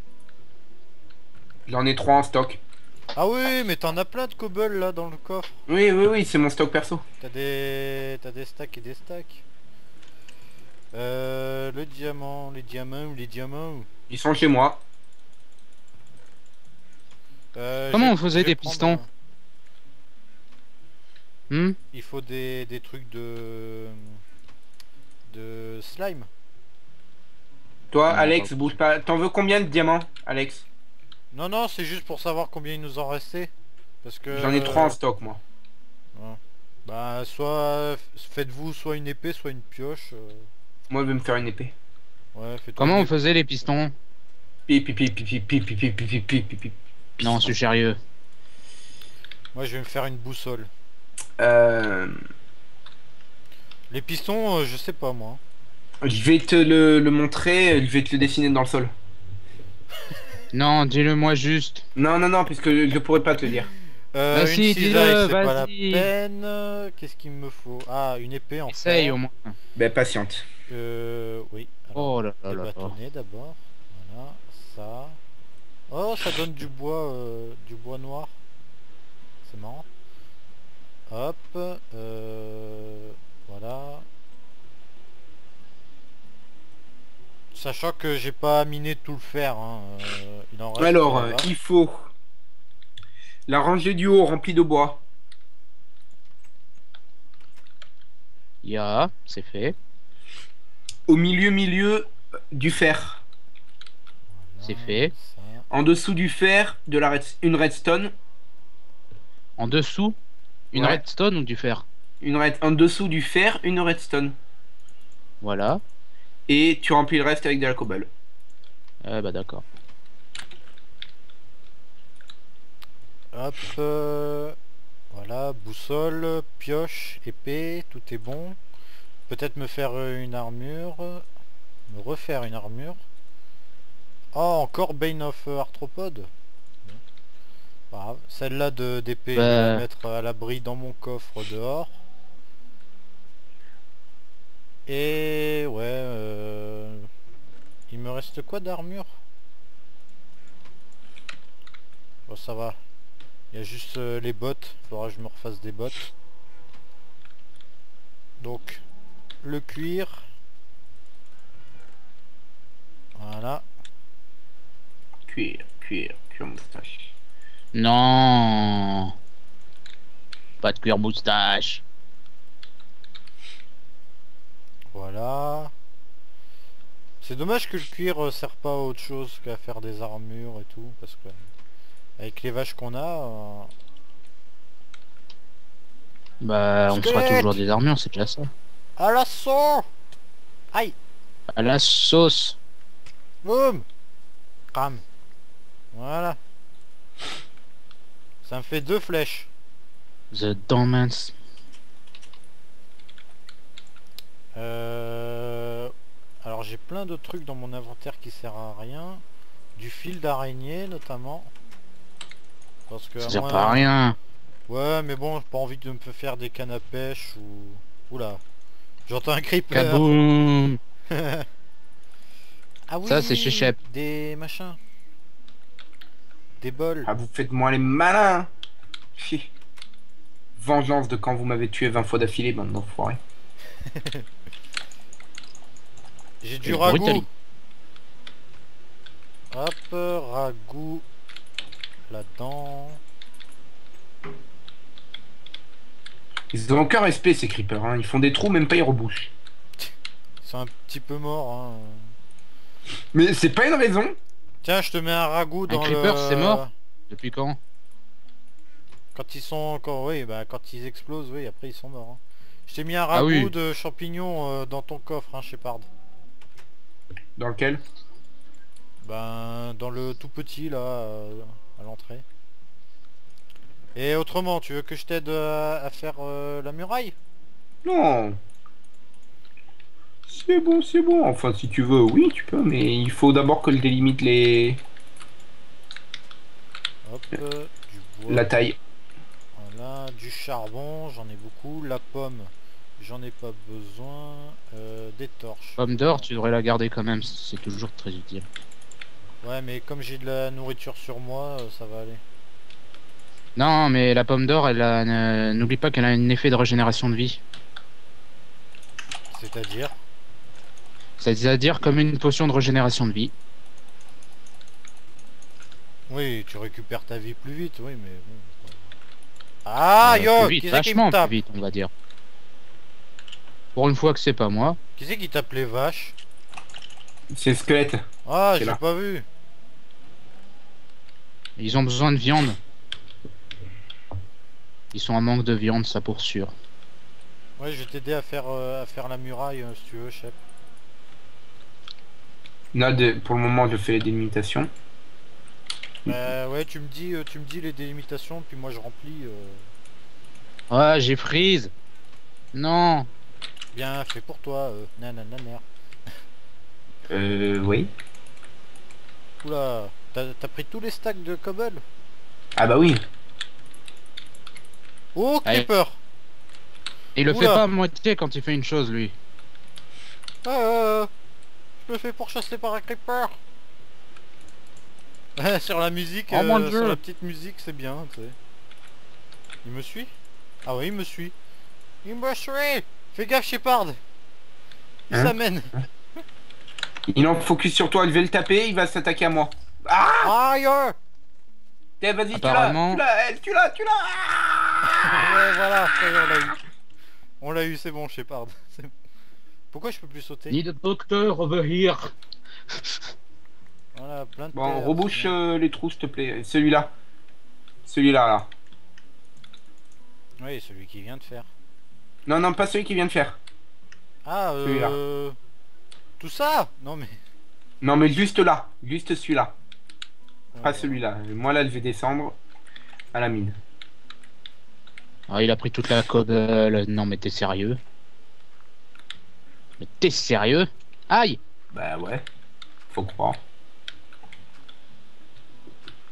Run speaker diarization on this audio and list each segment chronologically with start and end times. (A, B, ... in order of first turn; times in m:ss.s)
0:01.7-0:02.6 A
0:03.2-0:05.6 B
0:05.7-0:07.0 A
0:07.2-0:09.4 B
0:10.9-0:13.9 B
0:14.1-0:14.8 A
0:17.5-0:19.1 B
0:17.9-0:19.0 C
0:21.5-0:21.8 C
0:21.9-0:24.2 B
0:25.3-0:26.3 B
0:27.9-0:30.6 A
0:28.1-0:28.8 C
0:31.3-0:33.5 B
0:34.0-0:35.0 B
0:34.3-0:35.4 A
0:36.2-0:40.5 B
0:40.9-0:41.7 A
0:42.3-0:43.1 B
0:42.8-0:43.9 C
0:44.7-0:47.5 A
0:47.2-0:48.0 C
0:49.5-0:50.7 B
0:51.4-0:52.1 A
0:53.9-0:55.4 B
0:56.0-0:58.9 A
1:00.5-1:01.8 C
1:02.0-1:03.7 A
1:04.1-1:09.2 B
1:04.3-1:06.1 C
1:08.7-1:09.5 C
1:09.7-1:10.4 A
1:10.7-1:15.2 B
1:12.0-1:12.9 C
1:15.9-1:18.3 B
1:19.4-1:19.8 B
1:21.1-1:24.0 B
1:27.5-1:31.5 B
1:30.8-1:32.1 A
1:33.5-1:35.0 A
1:38.6-1:39.8 C
1:41.1-1:43.2 A
1:44.4-1:45.6 B
1:44.6-1:45.1 C
1:45.7-1:48.1 A
1:49.6-1:50.2 C
1:50.7-1:51.0 A
1:50.7-1:51.8 C
1:52.2-1:54.4 A
1:55.4-1:55.8 C
1:56.5-1:58.1 A
1:59.0-1:59.6 C
2:03.3-2:04.6 B
2:05.1-2:08.6 B
2:09.3-2:11.2 B
2:11.9-2:13.0 B
2:14.3-2:16.3 B
2:17.9-2:22.0 B
2:19.4-2:19.8 C
2:24.9-2:27.1 B
2:27.9-2:29.1 B
2:32.3-2:32.8 B
2:33.5-2:36.1 B
2:38.4-2:38.8 B
2:39.4-2:40.3 B
2:43.2-2:43.6 B
2:45.3-2:47.1 A
2:47.7-2:49.1 C
2:50.6-2:51.8 C
2:54.9-2:55.7 B
2:57.2-3:01.4 B
3:02.2-3:03.7 B
3:06.4-3:08.5 C
3:06.9-3:07.6 B
3:09.0-3:09.8 B
3:11.5-3:12.6 C
3:13.4-3:13.8 B
3:14.7-3:15.0 B
3:15.9-3:16.4 B
3:18.4-3:19.5 B
3:20.3-3:21.3 C
3:24.5-3:29.2 B
3:29.8-3:31.5 B
3:32.9-3:33.9 B
3:33.2-3:34.2 C
3:34.7-3:38.4 B
3:39.1-3:40.2 B
3:39.7-3:40.8 C
3:41.1-3:41.4 B
3:42.9-3:44.8 B
3:43.0-3:43.8 C
3:46.6-3:47.1 B
3:47.1-3:48.5 A
3:49.2-3:49.5 A
3:50.6-3:53.2 A
3:54.0-3:54.2 B
3:56.4-3:57.2 B
3:56.6-3:57.2 C
3:59.5-4:01.0 B
4:02.1-4:03.0 B
4:06.5-4:09.3 A
4:10.4-4:12.1 B
4:13.1-4:14.1 A
4:14.6-4:16.7 B
4:15.7-4:17.6 C
4:19.1-4:25.9 B
4:23.1-4:23.5 C
4:27.4-4:27.8 A
4:29.0-4:32.2 B
4:33.9-4:37.1 B
4:37.8-4:38.4 A
4:40.3-4:44.8 A
4:47.0-4:48.5 B
4:48.3-4:48.8 A
4:49.6-4:56.2 B
4:55.8-4:58.5 C
4:59.4-5:02.2 B
5:03.6-5:07.4 C
5:09.3-5:09.9 B
5:11.2-5:13.3 C
5:16.1-5:18.8 B
5:19.6-5:21.3 B
5:20.0-5:21.9 C
5:23.7-5:24.8 C
5:25.0-5:26.2 B
5:27.3-5:28.0 A
5:28.2-5:29.2 B
5:31.6-5:32.6 C
5:34.9-5:36.5 C
5:37.6-5:40.4 B
5:42.7-5:44.7 A
5:46.0-5:49.7 B
5:50.7-5:51.7 C
5:52.5-5:53.1 C
5:53.7-5:55.6 B
5:57.1-5:57.9 A
5:59.4-6:01.8 B
6:02.6-6:03.0 A
6:05.1-6:06.0 B
6:07.2-6:09.1 C
6:07.3-6:07.6 B
6:10.4-6:11.1 B
6:11.8-6:13.4 B
6:15.4-6:18.4 B
6:16.3-6:17.0 C
6:19.6-6:20.1 B
6:20.6-6:21.3 B
6:22.0-6:24.0 B
6:25.1-6:25.7 B
6:27.1-6:30.3 A
6:30.2-6:31.0 B
6:32.0-6:35.4 A
6:32.3-6:33.0 C
6:34.8-6:36.6 B
6:37.4-6:38.9 B
6:39.7-6:40.6 B
6:40.5-6:42.1 C
6:43.9-6:45.3 B
6:44.5-6:46.9 A
6:47.8-6:48.5 A
6:50.4-6:51.5 B
6:52.2-6:53.4 A
6:54.2-6:55.4 B
6:54.6-6:54.9 A
6:56.2-6:57.1 B
6:57.8-6:59.5 A
7:00.5-7:01.0 B
7:00.6-7:02.4 A
7:03.1-7:03.6 A
7:05.3-7:07.8 C
7:09.8-7:11.4 C
7:11.7-7:12.2 A
7:12.9-7:13.4 A